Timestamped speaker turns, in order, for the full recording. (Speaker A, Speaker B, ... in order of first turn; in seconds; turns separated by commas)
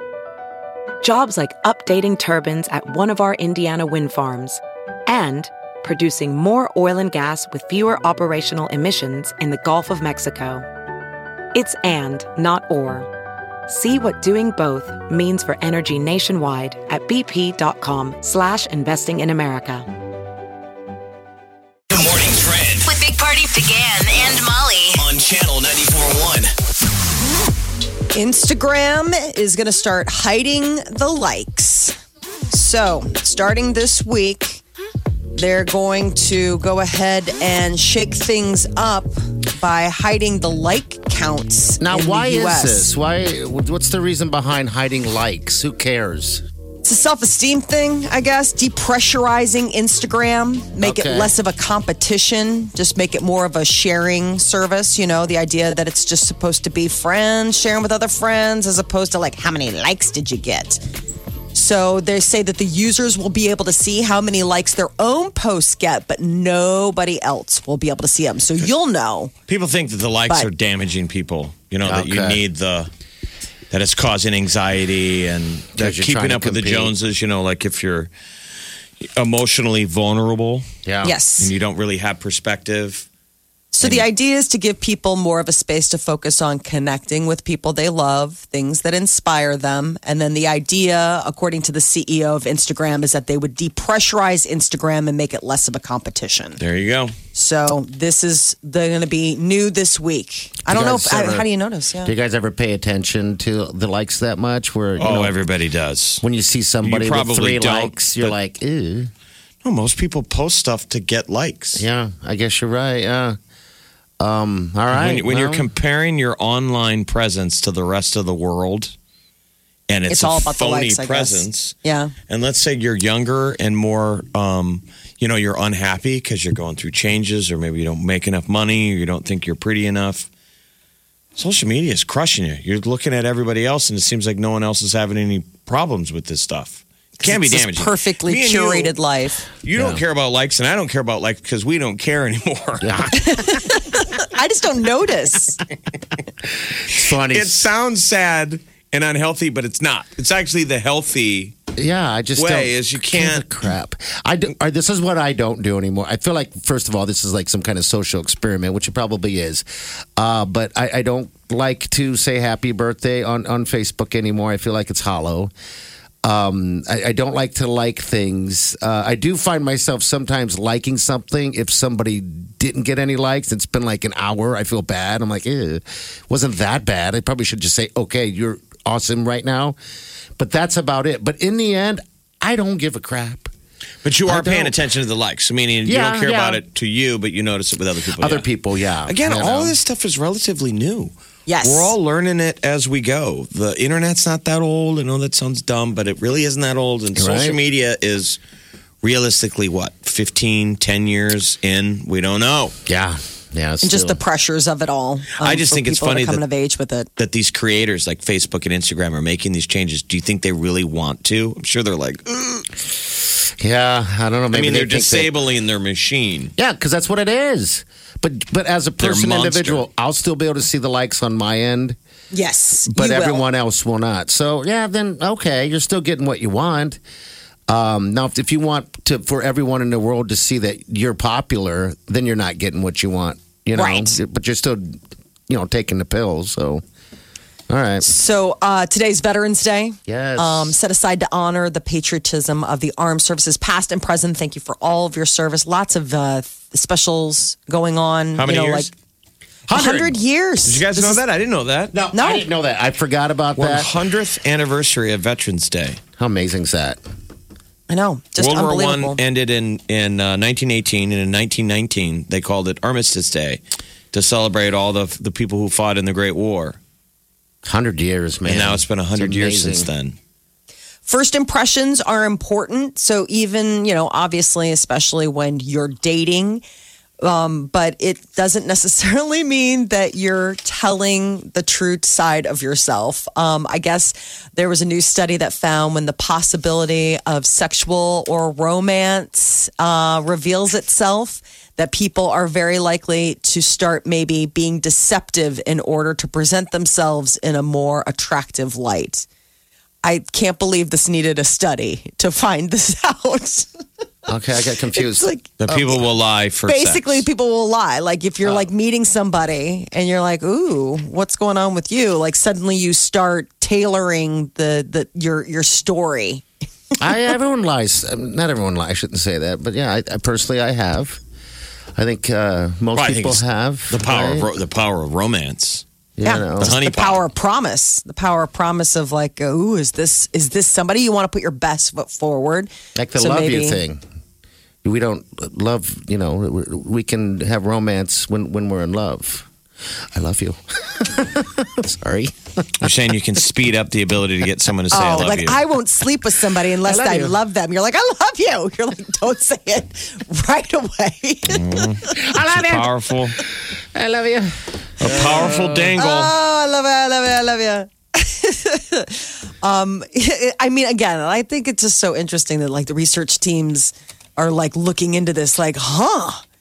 Speaker A: 1.0-10.7, Speaker A: 11.5-13.1, Speaker A: 13.7-19.9, Speaker B: 21.9-22.9, Speaker C: 22.8-25.0, Speaker B: 25.0-26.5, Speaker D: 28.1-31.9, Speaker D: 32.5-34.6, Speaker D: 35.3-42.9, Speaker E: 41.8-46.4, Speaker D: 46.8-60.8, Speaker E: 50.8-51.3, Speaker D: 61.5-69.3, Speaker F: 69.5-72.9, Speaker E: 71.8-72.4, Speaker F: 73.7-78.1, Speaker E: 75.8-76.9, Speaker F: 79.0-80.6, Speaker E: 80.8-81.1, Speaker D: 81.0-81.5, Speaker F: 81.4-83.0, Speaker D: 83.7-96.6, Speaker F: 83.8-84.1, Speaker F: 96.6-97.1, Speaker D: 97.3-102.1, Speaker E: 100.7-101.5, Speaker E: 102.0-105.3, Speaker F: 105.0-106.2, Speaker E: 106.2-109.1, Speaker F: 106.8-108.4, Speaker F: 109.6-111.8, Speaker E: 111.8-113.4, Speaker E: 114.2-115.7, Speaker F: 114.9-118.9, Speaker F: 119.9-121.8, Speaker D: 120.1-122.1, Speaker F: 122.3-130.3, Speaker F: 131.3-138.9, Speaker D: 137.2-139.4, Speaker F: 139.6-143.2, Speaker E: 139.7-140.0, Speaker E: 142.8-143.2, Speaker D: 143.1-145.6, Speaker E: 146.9-147.7, Speaker F: 146.9-151.5, Speaker E: 151.8-159.6, Speaker F: 152.3-153.5, Speaker E: 160.2-165.5, Speaker E: 166.2-179.8, Speaker E: 180.4-183.5, Speaker F: 184.0-188.5, Speaker E: 184.2-184.7, Speaker E: 185.8-186.6, Speaker E: 188.2-189.8, Speaker F: 189.0-198.4, Speaker D: 191.4-191.9, Speaker E: 197.2-197.6, Speaker F: 199.0-202.8, Speaker E: 202.8-204.2, Speaker D: 203.8-207.1, Speaker F: 205.4-206.4, Speaker F: 207.2-212.7, Speaker E: 213.6-215.3, Speaker F: 214.5-216.5, Speaker E: 216.6-221.9, Speaker F: 219.0-219.8, Speaker D: 222.3-223.5, Speaker E: 222.9-227.0, Speaker E: 227.7-235.0, Speaker D: 233.7-234.2, Speaker E: 235.5-236.8, Speaker E: 237.7-238.1, Speaker D: 238.0-248.9, Speaker E: 240.1-240.8, Speaker F: 248.3-248.9, Speaker E: 249.7-250.2, Speaker D: 249.7-251.2, Speaker F: 250.6-252.0, Speaker E: 251.9-253.9, Speaker D: 252.1-252.5, Speaker F: 253.6-256.0, Speaker E: 256.2-257.0, Speaker D: 257.9-259.2, Speaker F: 258.4-263.6, Speaker F: 264.1-266.8, Speaker E: 267.6-269.9, Speaker F: 268.4-270.1, Speaker D: 271.0-276.6, Speaker D: 277.2-299.3, Speaker D: 300.0-303.7, Speaker E: 304.3-305.3, Speaker D: 304.9-306.0, Speaker F: 305.6-307.2, Speaker D: 306.6-316.4, Speaker E: 317.0-321.2, Speaker E: 321.9-324.5, Speaker F: 322.9-325.8, Speaker E: 326.2-326.8, Speaker D: 326.2-333.8, Speaker F: 326.6-327.2, Speaker E: 332.9-334.0, Speaker E: 334.8-339.5, Speaker E: 340.1-342.9, Speaker F: 342.8-345.6, Speaker D: 344.9-352.2, Speaker E: 346.7-347.4, Speaker F: 351.5-353.4, Speaker E: 352.1-352.9, Speaker E: 353.9-356.0, Speaker F: 355.0-356.3, Speaker D: 356.0-366.4